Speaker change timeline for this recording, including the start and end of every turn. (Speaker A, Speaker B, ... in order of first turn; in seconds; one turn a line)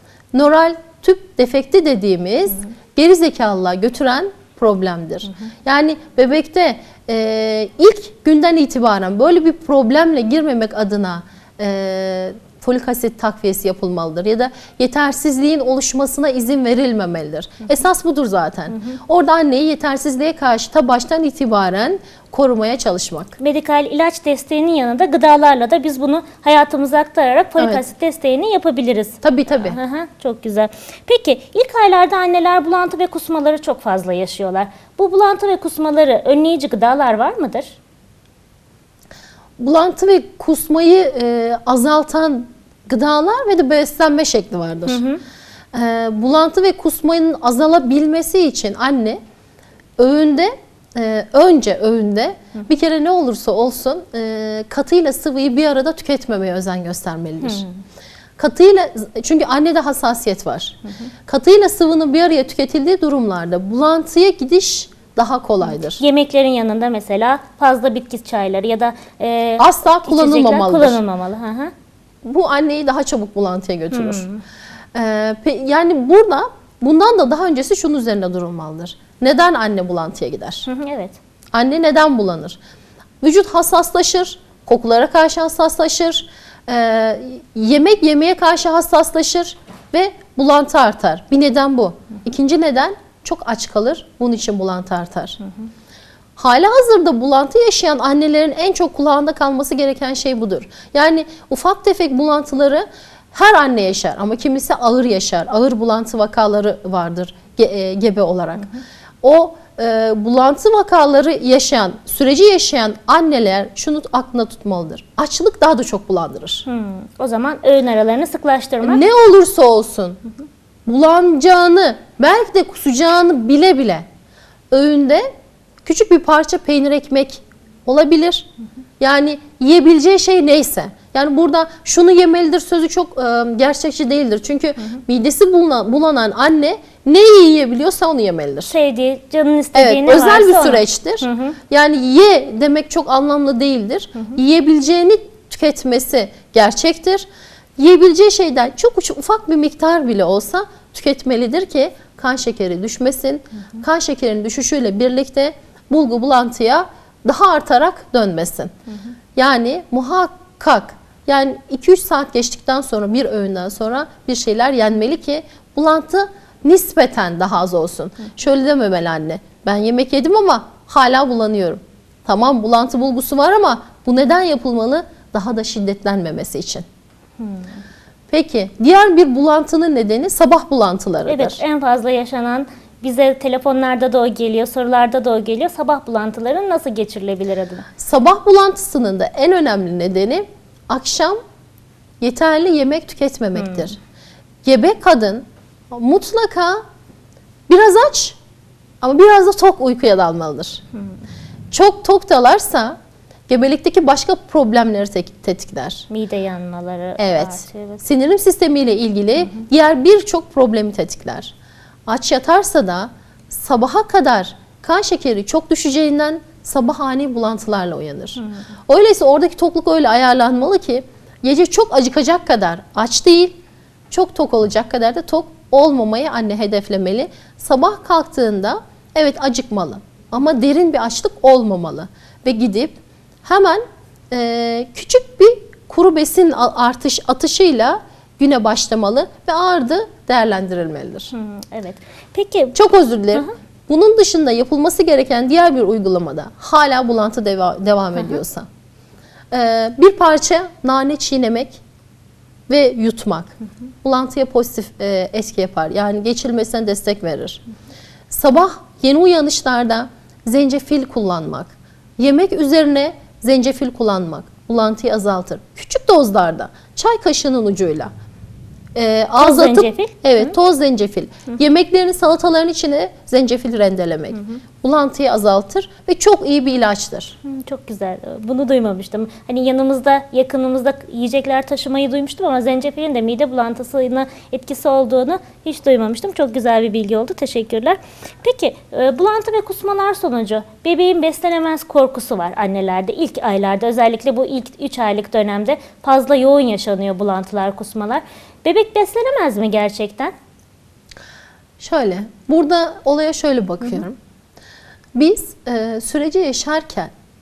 Speaker A: 0.3-23.4
Speaker B: 23.4-37.8
Speaker A: 27.6-27.8
Speaker A: 29.2-29.8
Speaker A: 39.6-45.0
Speaker B: 44.9-45.2
Speaker A: 45.7-49.2
Speaker A: 50.0-57.6
Speaker A: 58.4-66.0
Speaker B: 66.0-71.7
Speaker A: 69.6-71.0
Speaker A: 72.2-74.2
Speaker B: 74.0-74.4
Speaker A: 74.9-80.7
Speaker B: 80.7-81.2
Speaker A: 81.5-82.6
Speaker A: 83.2-95.4
Speaker A: 96.3-108.7
Speaker A: 109.2-116.6
Speaker B: 116.7-119.0
Speaker A: 118.8-120.2
Speaker A: 120.8-124.0
Speaker A: 124.7-125.3
Speaker A: 125.8-128.5
Speaker A: 129.0-138.7
Speaker B: 138.7-141.6
Speaker A: 139.7-158.7
Speaker A: 159.3-176.8
Speaker A: 178.3-181.6
Speaker B: 181.2-187.9
Speaker A: 188.0-191.4
Speaker A: 192.2-194.0
Speaker A: 194.6-196.8
Speaker A: 197.7-198.4
Speaker A: 199.0-200.8
Speaker A: 201.7-203.0
Speaker A: 203.5-206.1
Speaker B: 206.1-208.0
Speaker A: 207.2-211.5
Speaker A: 212.1-223.6
Speaker A: 224.1-241.3
Speaker B: 241.3-242.8
Speaker A: 242.7-248.7
Speaker A: 249.5-251.8
Speaker A: 252.7-257.6
Speaker A: 258.3-268.1
Speaker A: 268.9-277.4
Speaker B: 269.4-270.5
Speaker B: 274.3-274.6
Speaker B: 277.4-300.3
Speaker A: 301.8-304.2
Speaker A: 305.1-307.1